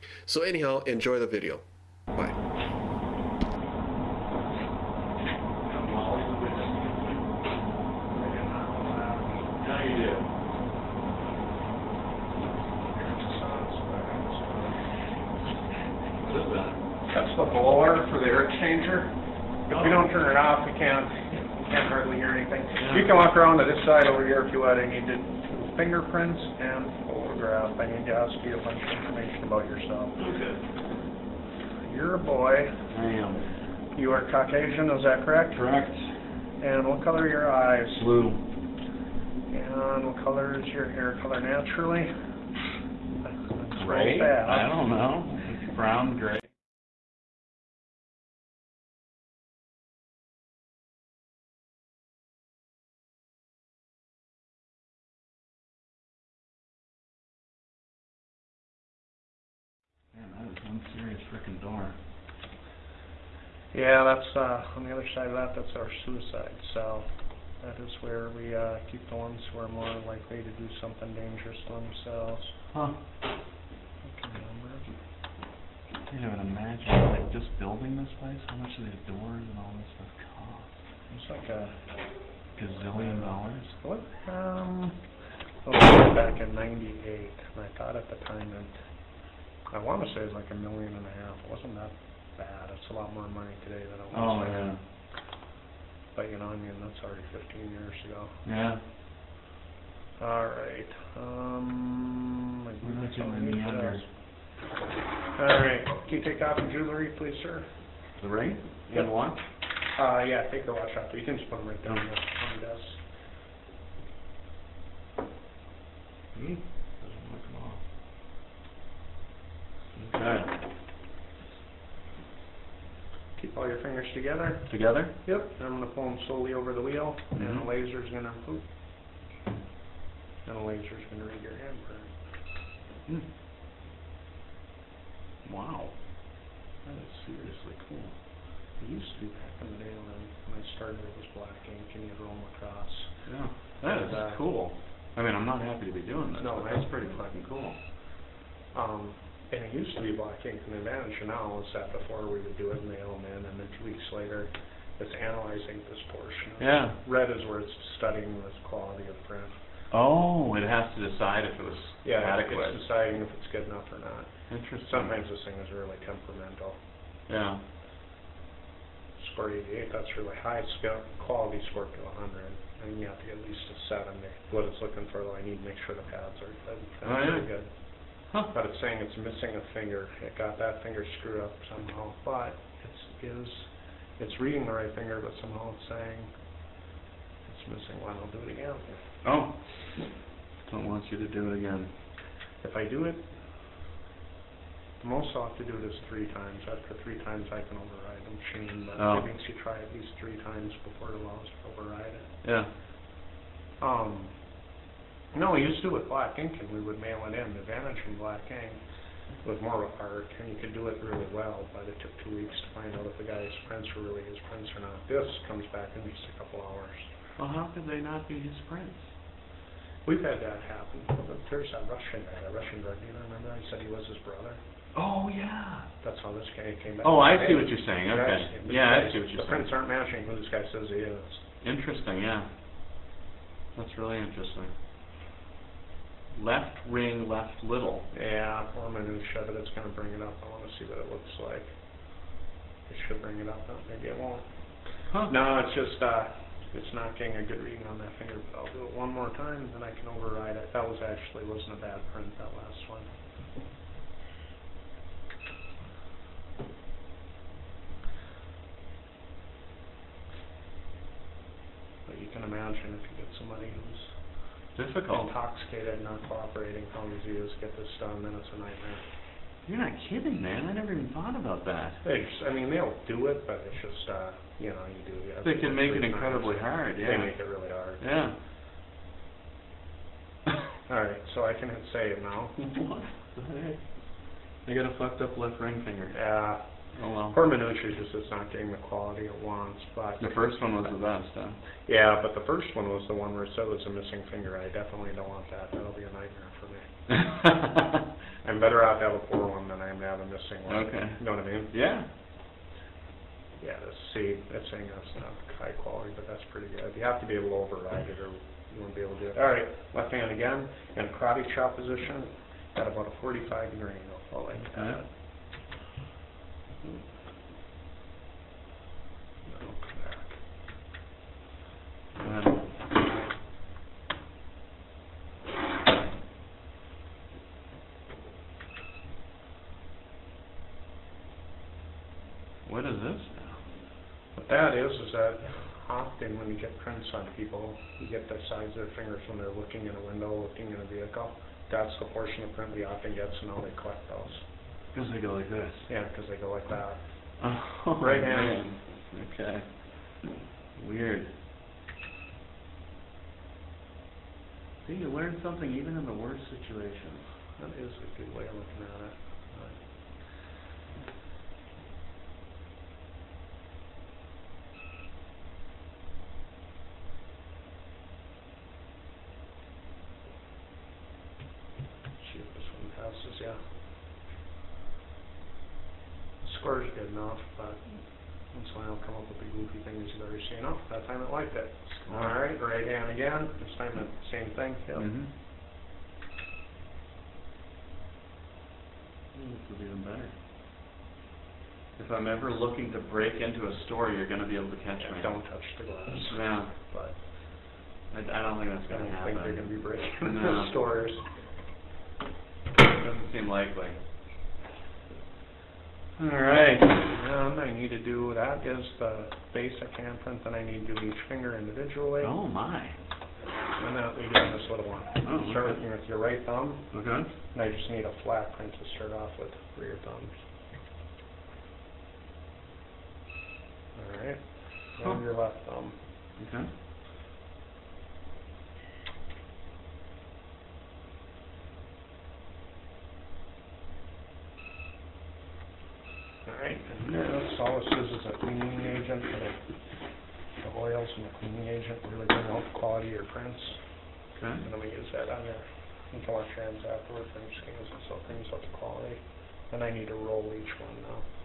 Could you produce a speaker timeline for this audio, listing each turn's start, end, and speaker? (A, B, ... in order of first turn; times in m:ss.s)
0:00.2-0:02.4 A
0:05.6-0:07.2 B
0:08.1-0:09.5 C
0:09.6-0:10.3 B
0:12.9-0:14.9 C
0:16.2-0:16.8 B
0:17.1-0:19.1 C
0:19.7-0:20.1 B
0:19.7-0:30.2 C
0:22.8-0:23.1 B
0:30.2-0:30.6 B
0:31.8-0:32.7 C
0:32.9-0:33.4 B
0:33.9-0:35.6 C
0:35.5-0:36.0 B
0:36.6-0:38.1 C
0:38.0-0:38.4 B
0:39.5-0:42.1 C
0:43.2-0:44.7 C
0:43.7-0:46.5 B
1:00.1-1:02.0 B
1:03.7-1:07.1 C
1:07.6-1:12.5 C
1:14.0-1:14.9 C
1:16.1-1:20.7 B
1:21.1-1:21.8 C
1:22.6-1:23.7 B
1:22.8-1:25.0 C
1:25.6-1:28.7 C
1:29.7-1:34.7 C
1:34.1-1:34.8 B
1:36.1-1:38.3 C
1:38.4-1:38.8 B
1:40.2-1:44.0 C
1:42.8-1:44.0 B
1:45.3-1:47.7 C
1:48.2-1:49.4 B
1:49.9-1:53.0 C
1:56.3-1:57.8 B
1:59.9-2:00.5 B
2:03.4-2:04.7 C
2:04.7-2:05.1 B
2:05.2-2:08.6 C
2:07.3-2:07.6 B
2:10.4-2:12.1 C
2:15.4-2:15.9 B
2:16.8-2:18.1 B
2:18.8-2:23.1 C
2:23.2-2:27.8 B
2:23.8-2:24.4 C
2:26.4-2:27.3 C
2:28.7-2:39.6 C
2:36.6-2:37.0 B
2:39.9-2:42.8 B
2:42.0-2:44.3 C
2:44.5-2:45.1 B
2:44.8-2:46.8 C
2:47.3-2:47.6 B
2:49.2-2:57.7 C
2:57.0-2:57.5 B
2:58.5-3:06.3 C
3:07.4-3:09.0 C
3:09.2-3:09.6 B
3:10.7-3:11.9 B
3:12.6-3:13.3 C
3:15.0-3:22.3 C
3:19.0-3:19.3 B
3:22.4-3:22.7 B
3:23.8-3:24.4 C
3:25.3-3:28.8 C
3:29.4-3:37.1 C
3:37.4-3:39.0 B
3:40.0-3:44.6 C
3:44.9-3:45.9 B
3:46.0-3:51.4 C
3:47.0-3:49.7 B
3:51.6-3:52.5 B
3:53.7-3:54.7 B
3:56.3-3:58.1 B
3:58.1-4:01.7 C
4:02.9-4:04.4 C
4:05.2-4:13.1 C
4:22.0-4:24.1 C
4:24.7-4:25.3 B
4:25.1-4:29.0 C
4:29.6-4:32.0 B
4:32.0-4:38.0 C
4:35.4-4:37.3 B
4:38.0-4:38.3 B
4:40.9-4:42.6 C
4:42.6-4:43.8 B
4:44.6-4:46.2 B
4:46.1-4:46.7 C
4:46.9-4:47.4 B
4:47.3-4:50.5 C
4:50.2-4:51.6 B
4:51.8-4:56.9 C
4:57.2-4:58.0 B
4:58.4-5:01.7 C
5:00.7-5:02.1 B
5:03.6-5:15.1 C
5:14.6-5:15.0 B
5:19.4-5:20.4 C
5:22.2-5:22.7 B
5:32.6-5:33.6 B
5:34.4-5:44.4 C
5:44.9-5:45.9 B
5:45.9-5:47.0 C
5:47.4-5:49.7 B
5:48.0-5:48.7 C
5:50.8-5:51.3 B
5:54.8-5:57.3 B
5:57.6-5:59.8 C
6:12.2-6:13.6 C
6:16.4-6:25.1 C
6:22.1-6:22.4 B
6:24.9-6:25.3 B
6:29.3-6:30.3 B
6:32.0-6:35.3 B
6:35.0-6:37.2 C
6:36.2-6:36.7 B
6:38.1-6:40.7 B
6:38.9-6:41.2 C
6:42.9-6:44.0 B
6:46.2-6:47.0 B
6:46.9-6:52.3 C
6:52.2-6:53.0 B
6:53.8-6:56.8 C
6:55.2-6:55.8 B
6:56.9-6:57.3 B
6:57.5-7:00.4 C
7:03.9-7:06.0 C
7:06.4-7:06.7 B
7:16.4-7:19.6 C
7:20.6-7:23.8 C
7:24.4-7:24.6 B
7:24.6-7:31.2 C